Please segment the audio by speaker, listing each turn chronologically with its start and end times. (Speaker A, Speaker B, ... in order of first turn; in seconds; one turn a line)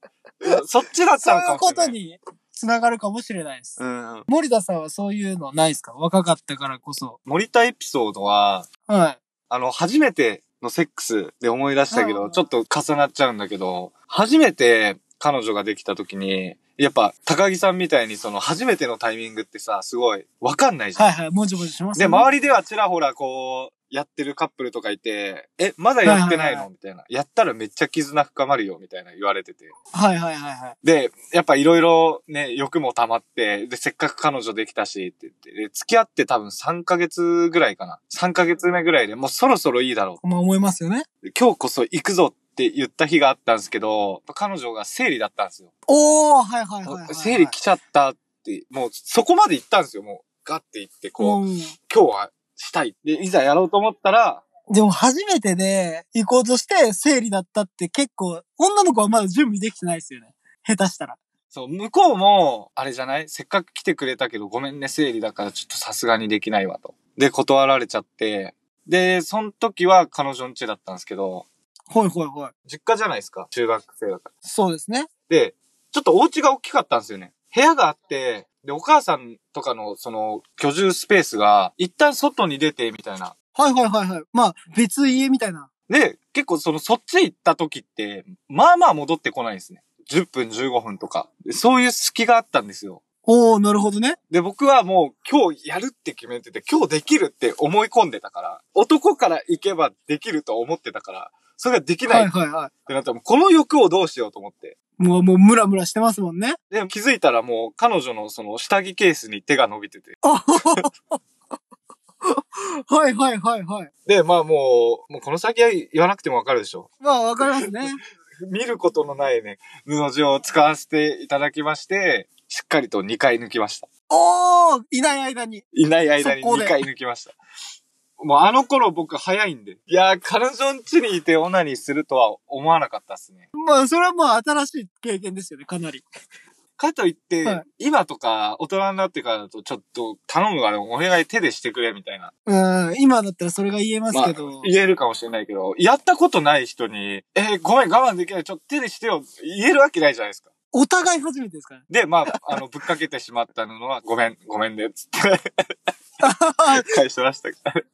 Speaker A: 0.4-1.9
Speaker B: 1.2-7.2
Speaker A: 3.8-4.3
Speaker A: 7.2-8.7
Speaker B: 8.9-9.2
Speaker A: 9.5-21.1
Speaker B: 11.9-12.4
Speaker B: 20.9-22.3
Speaker A: 21.9-29.7
Speaker B: 26.0-26.7
Speaker B: 29.9-30.8
Speaker A: 30.8-40.2
Speaker B: 40.2-41.1
Speaker A: 41.2-45.7
Speaker B: 45.9-47.5
Speaker A: 46.9-54.4
Speaker B: 51.2-51.8
Speaker B: 54.7-61.2
Speaker A: 61.5-71.5
Speaker B: 71.9-72.5
Speaker A: 72.7-74.3
Speaker B: 74.4-75.1
Speaker A: 75.3-83.3
Speaker B: 83.5-85.7
Speaker A: 85.9-93.0
Speaker B: 93.2-94.2
Speaker A: 94.3-102.3
Speaker B: 102.1-102.7
Speaker A: 102.9-104.8
Speaker B: 105.0-106.6
Speaker A: 106.7-110.2
Speaker B: 110.2-111.2
Speaker B: 112.2-113.9
Speaker A: 114.1-116.9
Speaker B: 117.0-118.0
Speaker A: 118.4-123.9
Speaker B: 124.1-125.7
Speaker A: 125.7-127.3
Speaker B: 126.2-126.8
Speaker A: 128.2-133.5
Speaker B: 133.6-136.0
Speaker A: 136.8-142.3
Speaker B: 142.5-144.7
Speaker A: 144.1-150.5
Speaker B: 150.7-152.4
Speaker A: 151.9-155.4
Speaker B: 156.2-157.0
Speaker A: 156.7-157.8